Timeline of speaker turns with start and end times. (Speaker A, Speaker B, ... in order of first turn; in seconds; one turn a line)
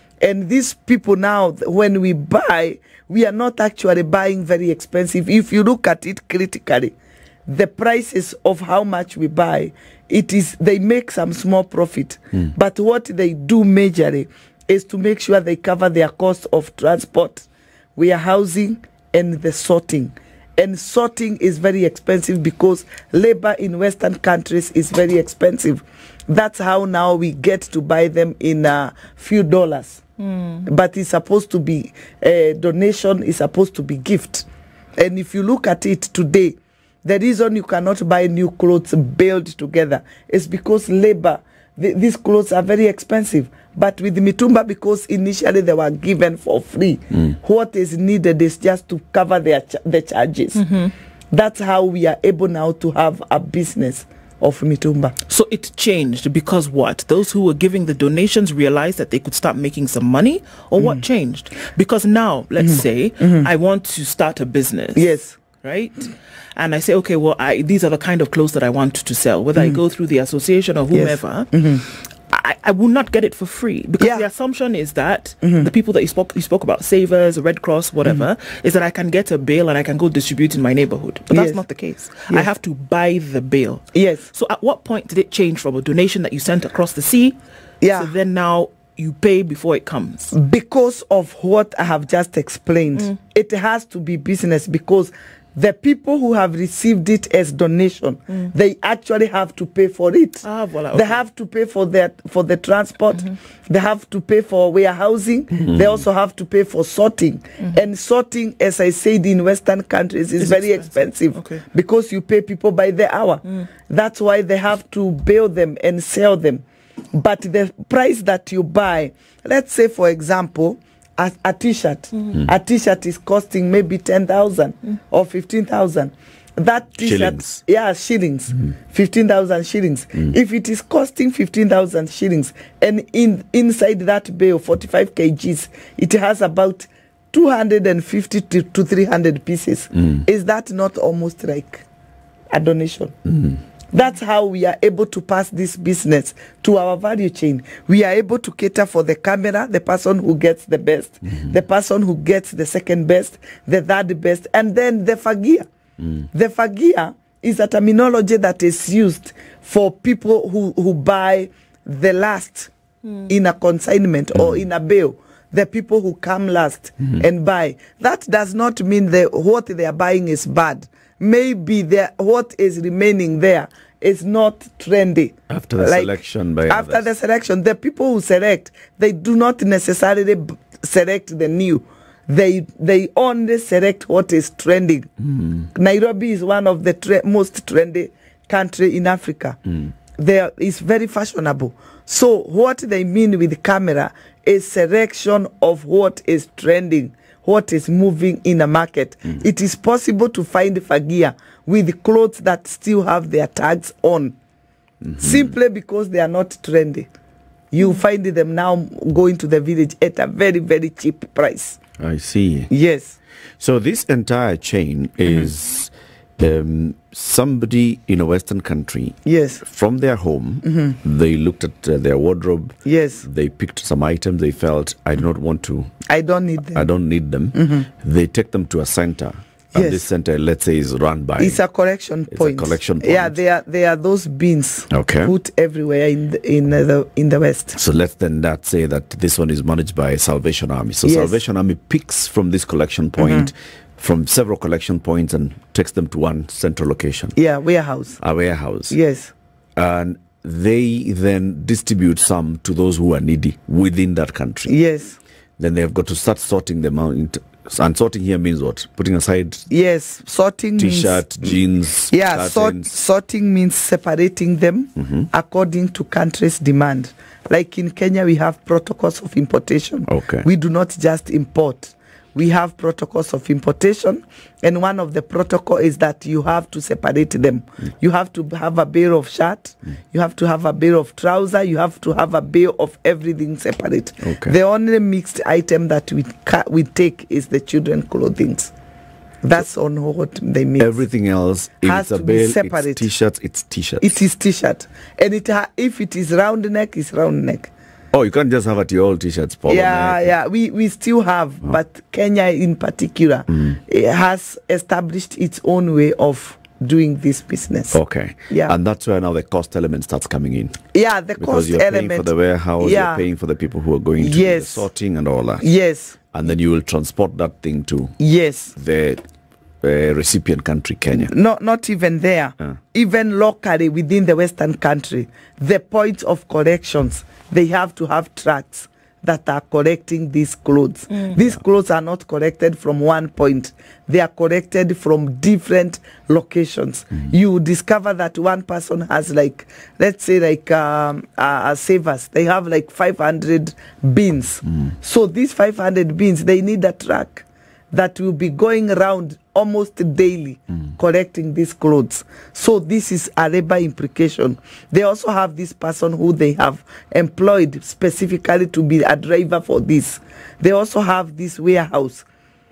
Speaker A: 0.2-6.9
Speaker A: 7.5-30.0
Speaker B: 30.2-30.6
Speaker A: 30.6-50.6
Speaker B: 50.5-50.9
Speaker A: 51.3-55.1
Speaker B: 55.3-90.3
Speaker A: 62.6-63.5
Speaker A: 64.9-65.4
Speaker A: 70.9-71.8
Speaker A: 74.0-74.2
Speaker A: 75.4-75.7
Speaker A: 81.3-81.6
Speaker A: 83.9-84.3
Speaker A: 87.8-88.1
Speaker A: 90.3-141.8
Speaker B: 100.4-101.2
Speaker B: 110.4-111.6
Speaker C: 127.0-127.6
Speaker A: 142.5-143.1
Speaker A: 143.9-155.7
Speaker A: 156.3-162.7
Speaker A: 163.3-176.1
Speaker C: 175.5-177.1
Speaker A: 176.7-185.1
Speaker C: 185.2-185.6
Speaker A: 185.7-189.6
Speaker A: 190.2-204.3
Speaker C: 205.0-205.5
Speaker A: 205.2-207.1
Speaker A: 207.7-211.8
Speaker C: 212.0-212.7
Speaker A: 212.7-213.2
Speaker C: 213.6-225.9
Speaker A: 219.2-219.6
Speaker A: 220.6-221.0
Speaker A: 222.8-223.2
Speaker A: 226.1-226.8
Speaker C: 226.7-231.6
Speaker A: 227.5-227.8
Speaker A: 229.7-230.0
Speaker A: 231.4-237.8
Speaker C: 232.3-233.4
Speaker C: 234.9-235.3
Speaker C: 237.7-247.3
Speaker A: 241.0-241.3
Speaker A: 243.2-243.5
Speaker A: 247.3-248.2
Speaker C: 248.2-249.0
Speaker A: 248.9-249.3
Speaker C: 249.8-254.7
Speaker A: 254.7-255.2
Speaker C: 255.6-259.7
Speaker A: 259.7-261.6
Speaker C: 260.8-262.9
Speaker A: 262.1-288.7
Speaker C: 265.0-265.3
Speaker C: 270.1-270.5
Speaker C: 284.2-284.5
Speaker A: 289.4-291.0
Speaker C: 290.8-294.2
Speaker A: 291.8-293.0
Speaker A: 294.0-297.7
Speaker C: 298.1-300.3
Speaker A: 299.7-308.0
Speaker C: 303.5-303.8
Speaker C: 307.9-310.8
Speaker A: 310.9-313.2
Speaker C: 311.4-315.7
Speaker A: 314.2-314.9
Speaker A: 315.6-316.2
Speaker C: 316.3-318.2
Speaker A: 318.2-318.7
Speaker C: 318.7-319.2
Speaker C: 319.8-321.3
Speaker A: 321.2-362.2